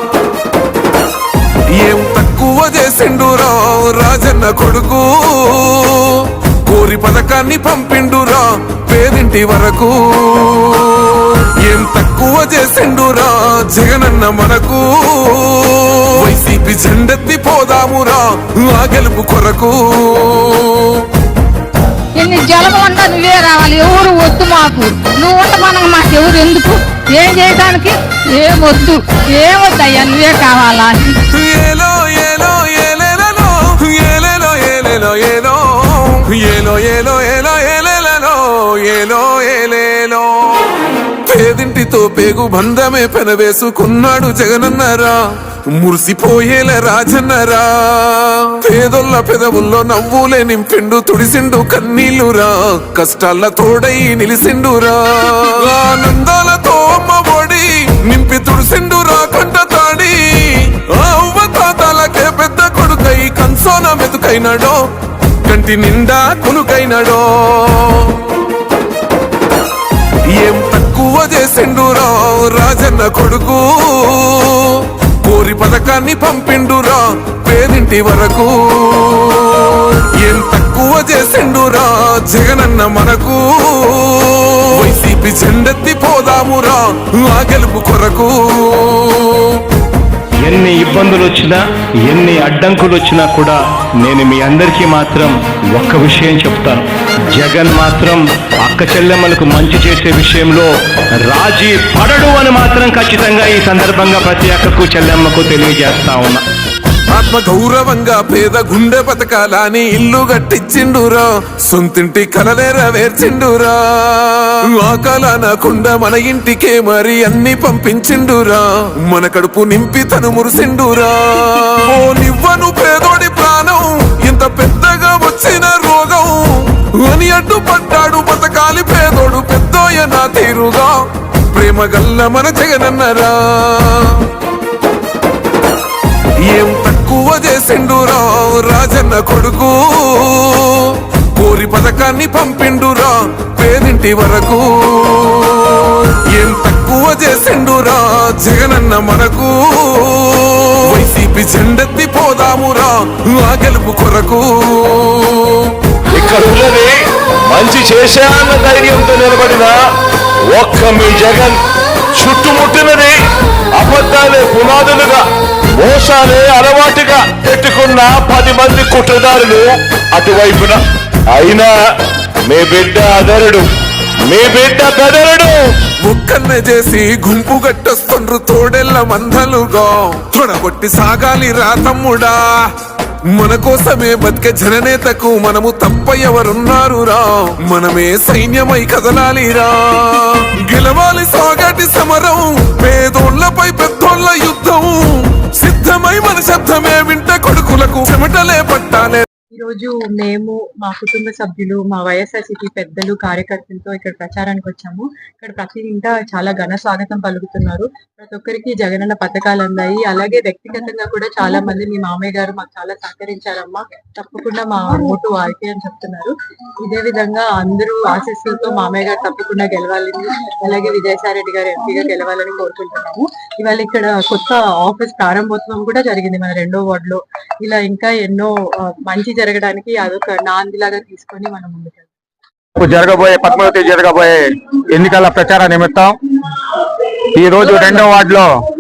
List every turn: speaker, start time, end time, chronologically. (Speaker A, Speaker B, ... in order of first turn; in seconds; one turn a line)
Speaker A: 1.8-21.1
Speaker B: 22.2-31.1
Speaker A: 31.3-40.7
Speaker A: 41.3-64.8
Speaker A: 65.5-68.3
Speaker A: 70.4-89.6
Speaker C: 90.4-100.7
Speaker C: 101.2-106.4
Speaker A: 107.1-131.0
Speaker A: 131.5-134.3
Speaker A: 136.5-155.7
Speaker D: 156.1-156.9
Speaker D: 157.5-159.7
Speaker D: 160.5-161.6
Speaker D: 162.2-163.2
Speaker D: 163.8-165.2
Speaker D: 165.7-171.7
Speaker D: 172.4-173.7
Speaker D: 174.3-175.6
Speaker A: 176.0-182.7
Speaker A: 183.3-199.3
Speaker E: 199.5-232.1
Speaker F: 232.8-234.4
Speaker F: 234.9-236.1
Speaker F: 237.3-238.5